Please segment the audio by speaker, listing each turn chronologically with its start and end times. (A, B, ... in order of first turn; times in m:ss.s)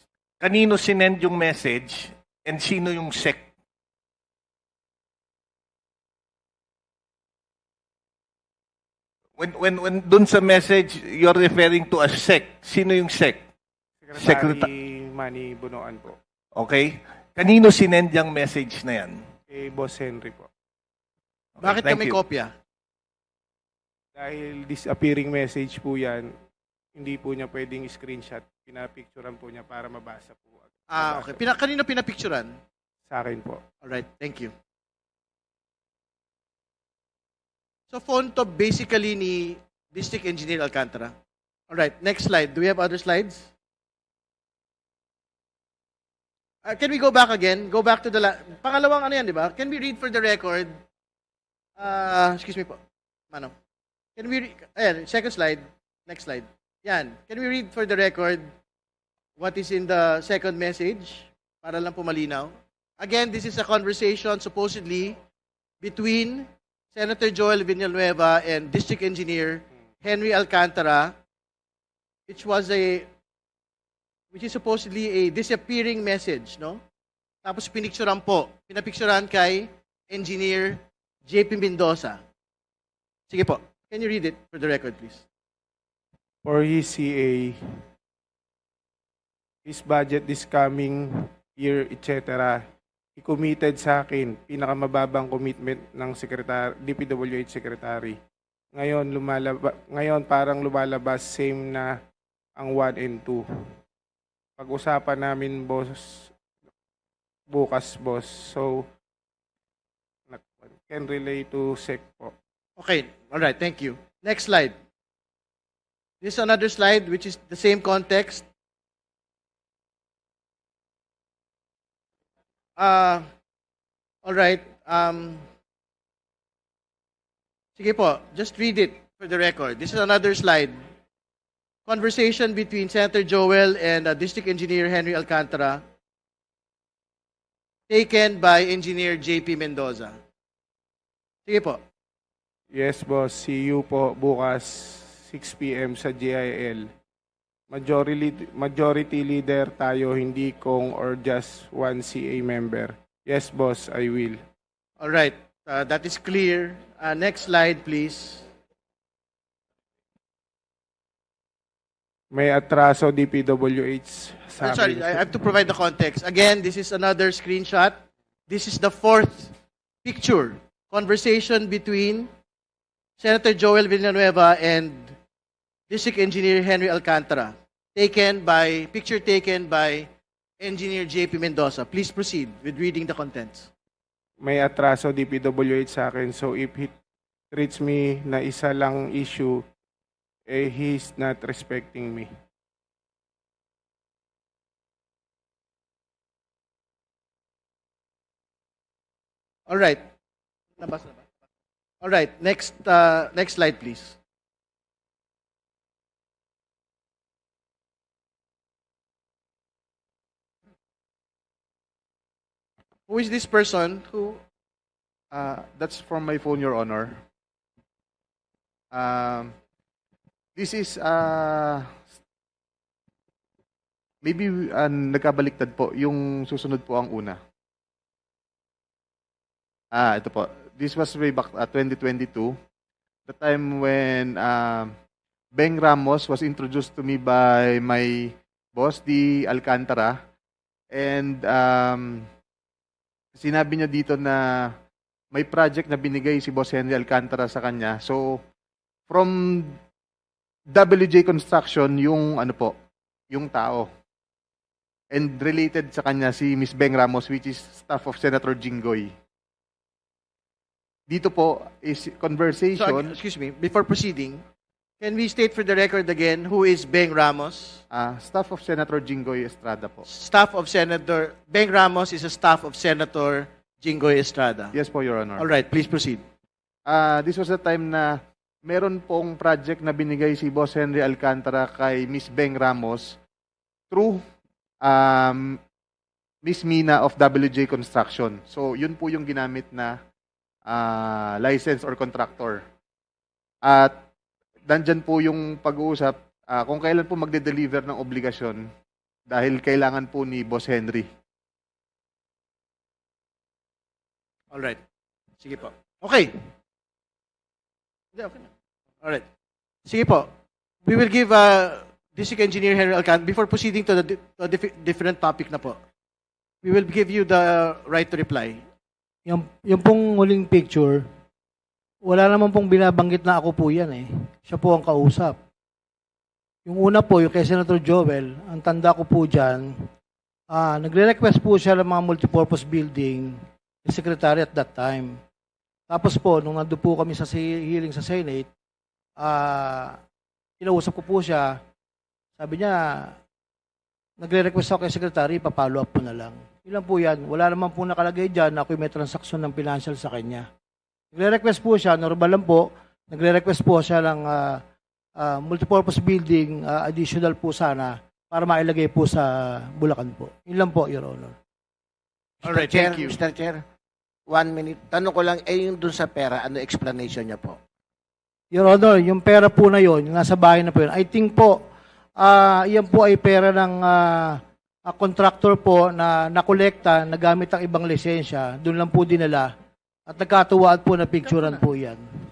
0:00.4-0:03.5 A
0:09.4-0:13.4 A
0:14.0-0:16.2 B
0:14.2-0:14.6 A
0:16.6-0:19.2 A
0:19.5-0:20.5 B
0:21.6-0:22.2 A
0:21.6-0:22.5 C
0:24.2-0:26.3 B
0:27.0-0:31.4 B
0:30.9-0:32.6 C
0:33.1-0:33.6 B
0:33.8-0:34.5 C
0:37.9-0:41.1 C
0:41.7-0:43.5 C
0:46.6-0:50.8 C
0:51.8-0:52.8 C
0:54.2-0:58.5 C
0:59.4-1:05.2 C
1:05.8-1:11.1 C
1:12.3-1:13.1 C
1:14.3-1:16.8 C
1:17.4-1:22.2 C
1:23.3-1:25.2 C
1:26.4-1:27.6 B
1:29.7-1:32.6 B
1:33.2-1:38.2 B
1:38.8-1:41.9 B
1:42.6-1:43.4 B
1:44.6-1:46.3 B
1:47.5-1:48.9 B
1:50.3-1:52.3 B
1:52.8-1:54.7 C
1:56.2-1:58.4 C
2:02.8-2:03.3 C
2:04.2-2:05.5 C
2:07.8-2:10.7 C
2:11.9-2:15.8 C
2:17.9-2:20.2 C
2:21.5-2:21.8 C
2:22.7-2:26.9 B
2:27.7-2:34.4 B
2:35.0-2:38.5 C
2:42.3-2:45.3 B
2:44.6-2:48.0 C
2:48.5-2:52.3 C
2:53.2-2:55.2 C
2:55.9-3:00.1 C
3:00.6-3:03.7 C
3:04.4-3:07.0 B
3:07.5-3:09.6 B
3:10.5-3:12.3 B
3:19.7-3:20.0 C
3:20.8-3:21.2 C
3:22.0-3:24.2 C
3:33.1-3:34.4 C
3:35.3-3:37.2 D
3:38.9-3:39.5 D
3:40.6-3:42.0 D
3:44.2-3:47.4 D
3:49.9-3:52.6 D
3:53.3-3:54.9 D
3:55.6-4:00.2 D
4:00.9-4:02.3 D
4:03.4-4:04.7 D
4:05.3-4:08.4 D
4:09.1-4:09.8 D
4:10.7-4:12.7 D
4:13.3-4:13.9 D
4:15.1-4:19.1 D
4:21.1-4:23.1 D
4:22.8-4:24.4 C
4:25.0-4:27.8 C
4:27.9-4:30.1 D
4:30.1-4:34.7 C
4:34.7-4:35.5 D
4:35.4-4:36.2 C
4:36.9-4:43.2 D
4:43.9-4:44.2 D
4:44.8-4:45.6 D
4:46.4-4:50.0 D
4:50.7-4:52.6 D
4:53.6-4:54.0 D
4:54.7-4:58.6 D
4:59.3-5:01.1 D
5:04.5-5:04.8 C
5:05.4-5:06.4 C
5:08.2-5:08.5 C
5:09.9-5:10.3 C
5:10.8-5:15.8 C
5:16.6-5:18.6 C
5:19.3-5:21.0 E
5:22.0-5:25.4 E
5:26.7-5:29.7 E
5:30.5-5:35.2 E
5:35.9-5:38.5 E
5:39.2-5:40.0 E
5:40.6-5:41.6 E
5:42.4-5:43.1 E
5:44.2-5:50.5 E
5:51.1-5:54.6 E
5:55.2-6:01.4 E
6:02.4-6:03.6 F
6:02.4-6:03.2 C
6:04.3-6:07.6 F
6:08.5-6:11.6 E
6:12.2-6:19.5 E
6:20.1-6:22.0 E